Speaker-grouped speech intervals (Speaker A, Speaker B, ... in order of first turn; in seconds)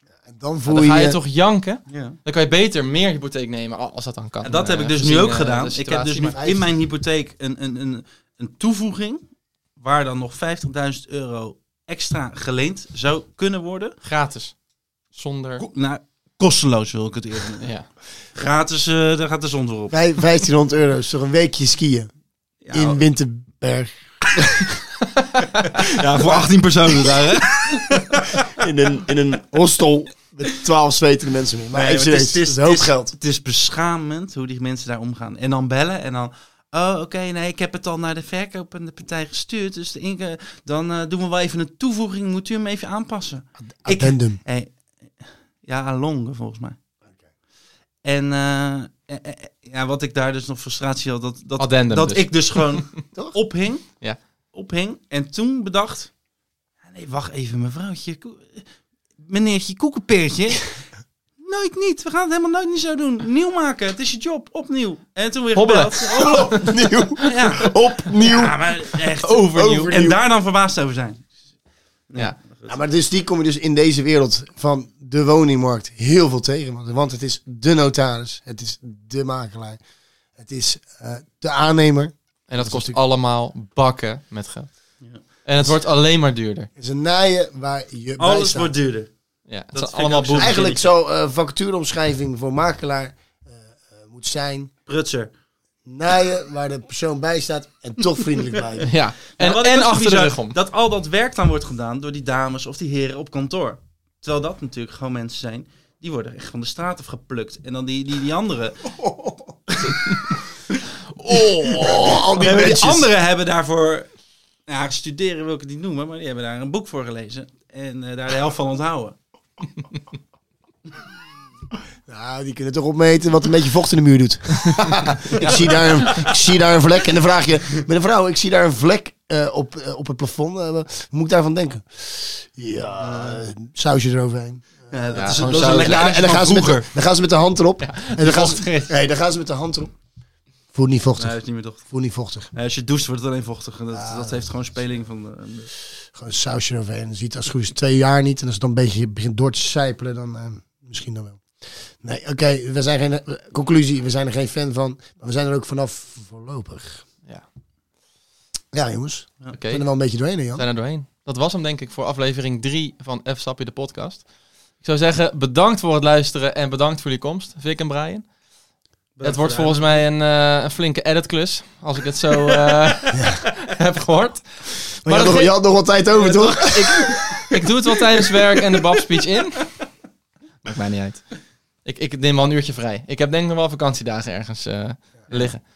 Speaker A: 0.2-1.2, 6.3-6.7, 19.9-22.1, 22.7-24.8, 28.5-33.1, 43.6-44.4, 66.2-68.7, 69.5-70.2, 72.7-79.8, 80.4-83.0, 86.8-88.7, 90.3-94.7, 95.8-98.9, 109.0-109.3, 111.3-113.1, 122.1-139.9, 140.7-142.5, 143.9-144.6, 146.0-157.0, 158.7-160.6, 175.0-177.7
Speaker B: 0.7-6.4, 14.0-14.5, 15.1-15.7, 51.6-53.0, 65.5-67.3, 69.2-70.0, 82.5-86.7, 89.5-90.7, 98.8-100.6, 135.1-136.1, 137.8-138.9, 159.5-159.8, 160.5-164.3, 164.8-168.3, 169.2-175.5, 176.1-179.8, 180.6-185.6
Speaker C: 1.9-2.2, 4.4-9.2, 9.8-14.0, 15.6-17.7, 18.3-20.0, 22.6-23.0, 25.8-28.4, 31.7-46.8, 48.0-53.9, 54.5-56.1, 56.8-60.8, 61.4-66.7, 67.2-71.3, 72.1-72.8, 88.2-89.1, 89.7-90.8, 94.9-95.3, 99.3-108.9, 111.3-114.1, 114.7-119.2, 125.3-126.1, 133.0-133.4, 134.9-136.9, 141.2-141.9, 142.5-145.7, 169.2-170.0